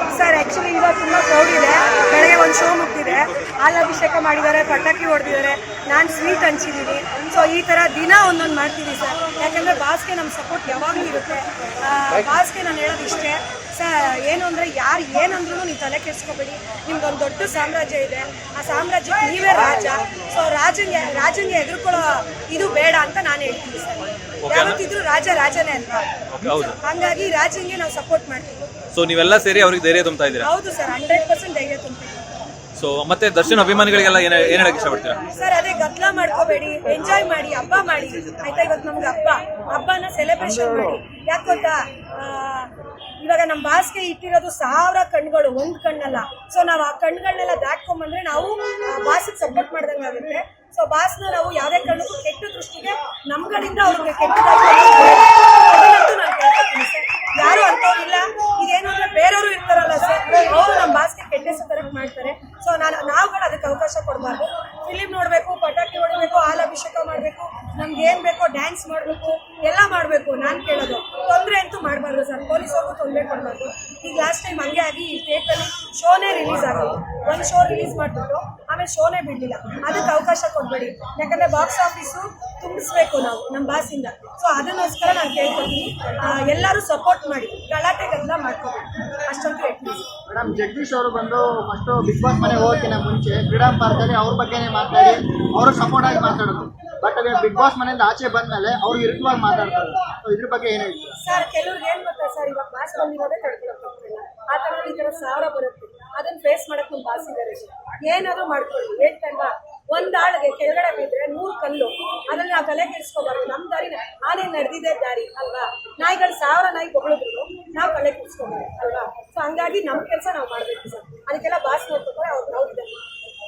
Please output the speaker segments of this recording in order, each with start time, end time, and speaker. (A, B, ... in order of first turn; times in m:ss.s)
0:00.1-0:28.6 A
0:24.4-0:24.8 B
0:26.4-0:26.8 B
0:28.9-0:30.5 B
0:30.4-0:32.2 A
0:32.8-0:35.2 B
0:35.3-1:30.1 A
1:30.3-1:41.2 C
1:41.2-2:03.0 A